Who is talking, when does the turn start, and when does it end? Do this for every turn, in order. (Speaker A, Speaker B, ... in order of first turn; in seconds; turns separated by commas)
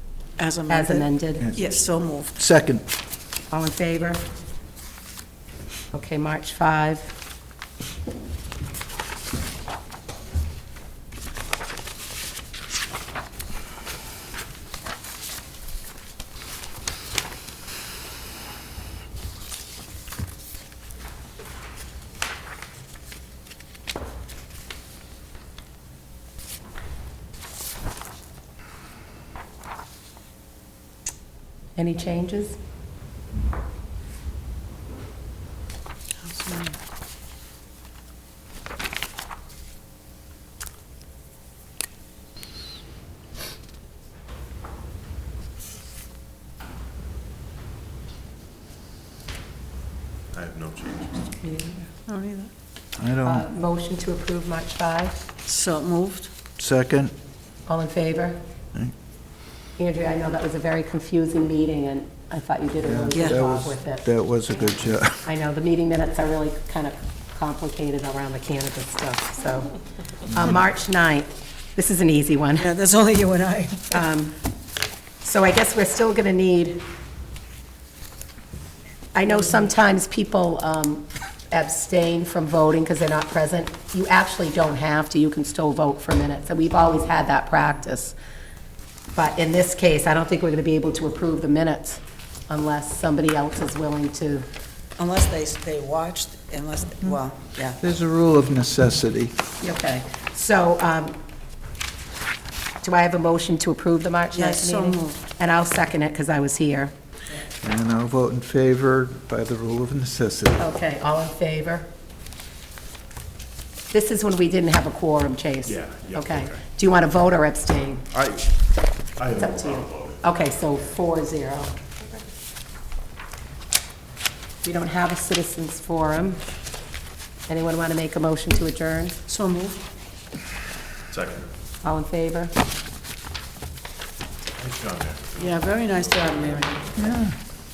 Speaker A: 0.4-2.3, Speaker B: 0.7-1.5, Speaker C: 2.4-2.8, Speaker B: 3.5-4.3, Speaker B: 5.9-7.1, Speaker B: 31.8-32.6, Speaker A: 36.2-36.8, Speaker D: 50.3-51.3, Speaker B: 51.4-51.9, Speaker A: 52.0-52.5, Speaker C: 53.0-53.5, Speaker B: 53.2-55.2, Speaker A: 55.5-56.3, Speaker C: 56.6-57.1, Speaker B: 57.7-58.4, Speaker B: 59.8-69.7, Speaker C: 62.8-65.3, Speaker B: 70.2-72.7, Speaker A: 72.6-74.0, Speaker B: 73.9-74.3, Speaker B: 75.2-76.8, Speaker B: 79.1-88.2, Speaker B: 89.1-94.5, Speaker A: 95.0-97.8, Speaker C: 97.8-99.3, Speaker B: 99.6-101.2, Speaker B: 102.8-106.9, Speaker A: 104.3-105.2, Speaker C: 107.6-110.6, Speaker B: 110.6-111.9, Speaker B: 113.9-118.0, Speaker D: 115.6-116.6, Speaker D: 118.1-118.5, Speaker D: 119.2-120.2, Speaker B: 119.3-121.8, Speaker B: 124.6-126.4, Speaker B: 127.5-129.2, Speaker A: 129.3-129.8, Speaker D: 131.1-131.5, Speaker B: 131.8-132.5, Speaker D: 134.6-136.8, Speaker A: 135.4-136.8, Speaker C: 137.0-137.3